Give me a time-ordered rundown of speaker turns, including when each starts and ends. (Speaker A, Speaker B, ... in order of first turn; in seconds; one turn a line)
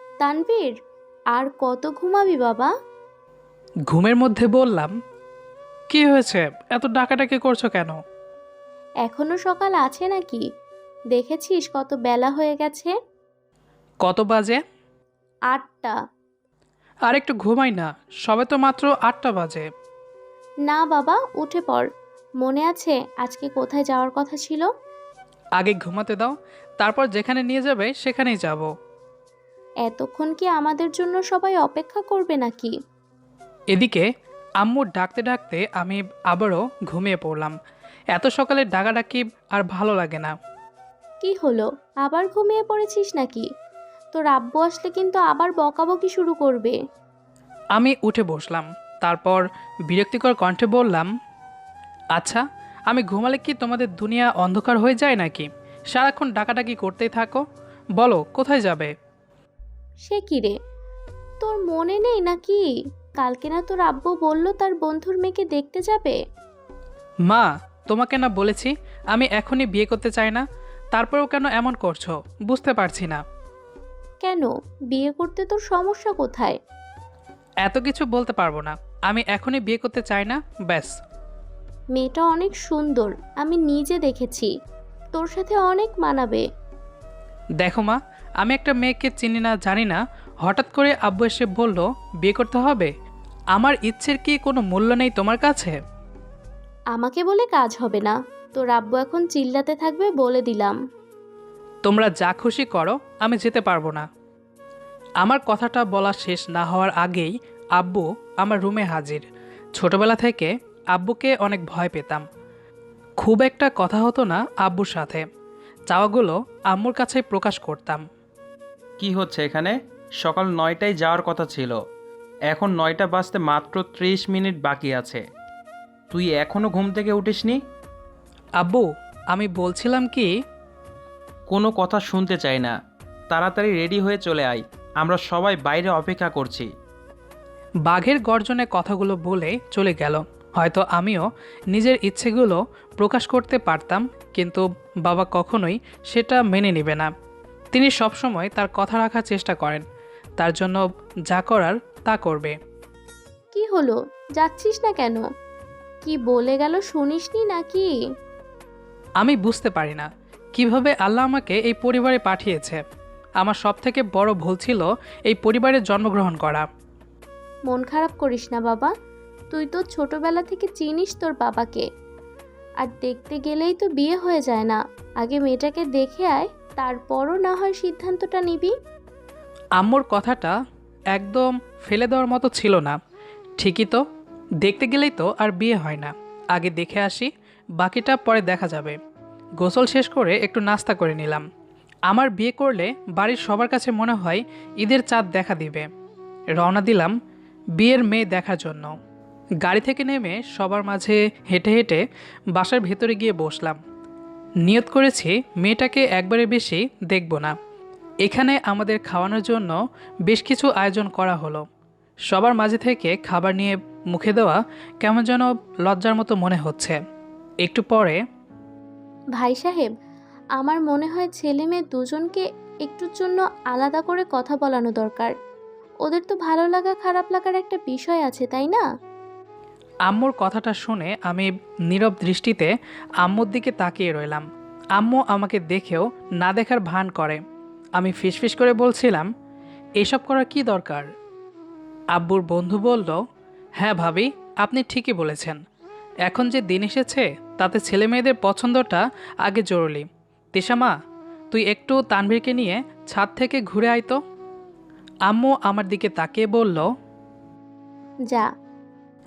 Speaker A: 0.2-0.7
Speaker A: 1.3-2.7
Speaker B: 3.9-4.9
Speaker B: 5.9-8.0
Speaker A: 9.0-10.4
Speaker A: 11.1-12.9
Speaker B: 14.0-14.6
Speaker A: 15.5-15.9
Speaker B: 17.1-19.6
Speaker A: 20.7-21.9
Speaker A: 22.4-24.7
Speaker B: 25.6-28.7
Speaker A: 29.9-32.7
Speaker B: 33.7-34.0
Speaker B: 34.6-37.5
Speaker B: 38.1-40.3
Speaker A: 41.2-43.5
Speaker A: 44.1-46.8
Speaker B: 47.7-51.1
Speaker B: 52.1-57.4
Speaker B: 58.0-58.9
Speaker A: 60.0-60.5
Speaker A: 61.4-62.6
Speaker A: 63.2-66.2
Speaker B: 67.3-73.2
Speaker A: 74.2-76.5
Speaker B: 77.6-80.9
Speaker A: 81.9-84.5
Speaker A: 85.2-86.4
Speaker B: 87.6-92.9
Speaker B: 93.5-95.8
Speaker A: 96.9-100.8
Speaker B: 101.8-104.0
Speaker B: 105.2-109.2
Speaker B: 109.7-112.2
Speaker B: 113.2-115.2
Speaker B: 115.9-118.0
Speaker C: 119.0-121.8
Speaker C: 122.5-125.2
Speaker C: 126.1-127.6
Speaker B: 128.6-130.3
Speaker C: 131.5-132.7
Speaker C: 133.3-136.7
Speaker B: 137.8-147.1
Speaker B: 147.7-149.8
Speaker B: 150.4-152.5
Speaker A: 153.5-155.2
Speaker A: 156.0-157.9
Speaker B: 159.2-162.8
Speaker B: 163.4-166.7
Speaker A: 167.7-168.9
Speaker A: 169.5-171.8
Speaker A: 172.8-178.7
Speaker B: 179.8-180.5
Speaker B: 181.1-183.0
Speaker B: 183.6-184.0
Speaker B: 184.6-189.0
Speaker B: 189.6-191.4
Speaker B: 192.1-195.9
Speaker B: 196.6-197.1
Speaker B: 197.8-198.9
Speaker B: 199.6-203.8
Speaker B: 204.6-207.6
Speaker B: 208.2-209.8
Speaker B: 210.3-211.6
Speaker B: 212.3-217.0
Speaker B: 217.6-218.2
Speaker A: 219.3-219.9
Speaker A: 220.6-225.3
Speaker A: 226.0-228.8
Speaker B: 230.1-232.7
Speaker B: 233.2-234.4
Speaker B: 234.9-237.4
Speaker B: 238.0-239.3
Speaker B: 240.0-241.1
Speaker B: 242.1-243.2
Speaker B: 243.8-245.6
Speaker B: 246.2-250.9
Speaker B: 251.5-254.2
Speaker B: 255.3-256.9